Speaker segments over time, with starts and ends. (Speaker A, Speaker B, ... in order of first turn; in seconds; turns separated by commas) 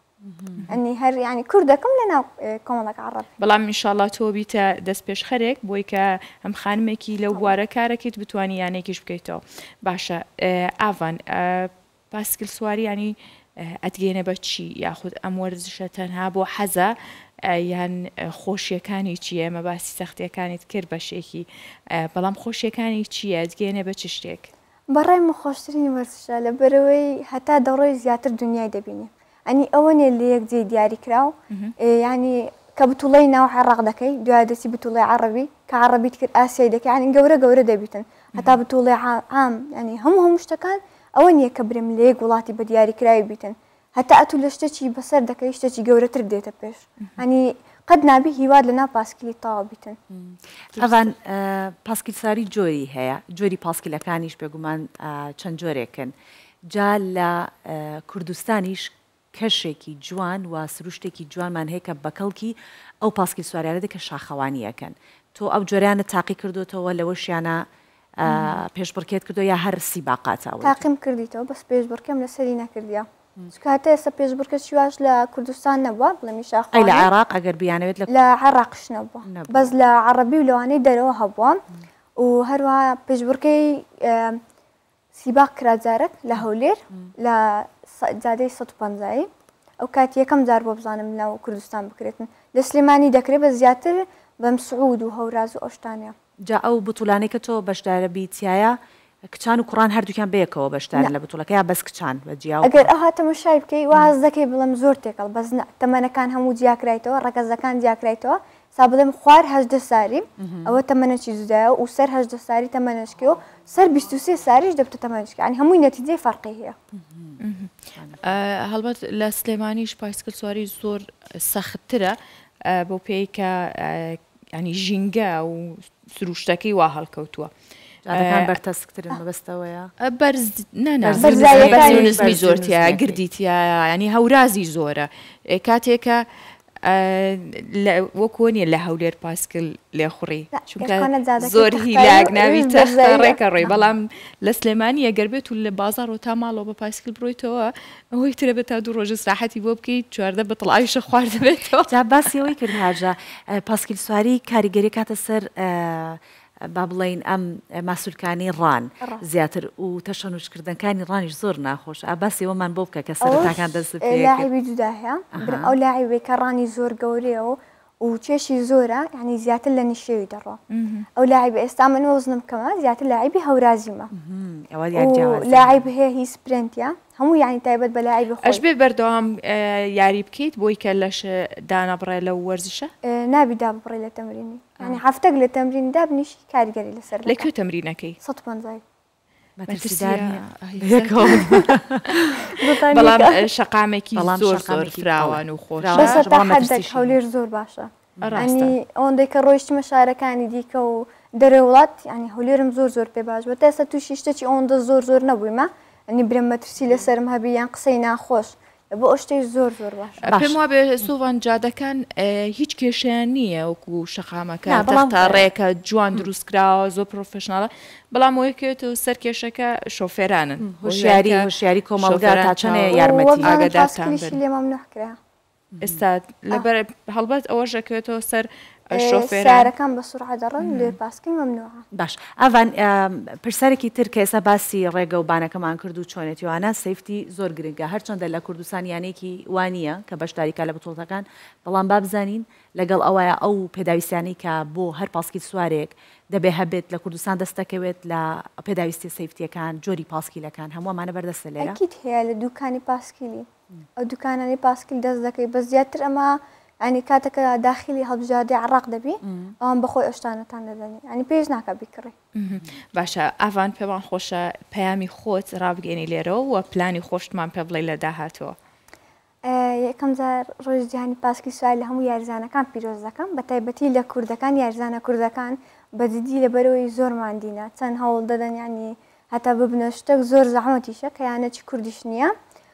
Speaker A: 0.2-0.6, Speaker B: 0.7-3.3, Speaker C: 3.4-24.5, Speaker B: 24.9-50.0, Speaker A: 50.1-56.1, Speaker C: 50.7-51.0, Speaker A: 56.6-67.6, Speaker A: 68.2-70.8, Speaker B: 70.6-77.1, Speaker A: 76.7-78.1, Speaker B: 78.1-81.6, Speaker A: 79.2-79.7, Speaker B: 82.2-84.4, Speaker B: 85.1-89.3, Speaker B: 89.8-96.1, Speaker A: 96.5-102.9, Speaker B: 102.6-116.8, Speaker A: 110.4-110.8, Speaker A: 117.0-117.4, Speaker C: 117.4-127.5, Speaker A: 128.1-129.9, Speaker C: 128.1-128.5, Speaker C: 130.0-136.2, Speaker A: 131.0-133.2, Speaker B: 131.1-132.2, Speaker C: 136.8-152.3, Speaker B: 140.5-143.4, Speaker A: 151.9-164.5, Speaker B: 163.2-170.6, Speaker A: 165.3-165.7, Speaker C: 170.7-171.1, Speaker B: 171.2-174.1, Speaker A: 174.1-175.9, Speaker B: 174.9-178.6, Speaker C: 178.4-182.9, Speaker B: 183.0-187.4, Speaker C: 187.2-188.2, Speaker B: 188.2-188.8, Speaker A: 189.6-192.6, Speaker C: 189.7-196.2, Speaker B: 192.5-193.5, Speaker A: 194.1-197.2, Speaker B: 195.9-210.3, Speaker A: 198.2-198.5, Speaker C: 198.2-198.7, Speaker C: 210.2-224.4, Speaker A: 210.3-210.6, Speaker A: 214.7-215.5, Speaker A: 220.6-223.5, Speaker B: 222.9-225.2, Speaker A: 225.7-226.0, Speaker C: 225.8-229.7, Speaker B: 228.9-231.8, Speaker A: 231.9-251.8, Speaker B: 251.6-262.1, Speaker A: 259.2-259.5, Speaker C: 262.3-268.6, Speaker B: 269.4-282.3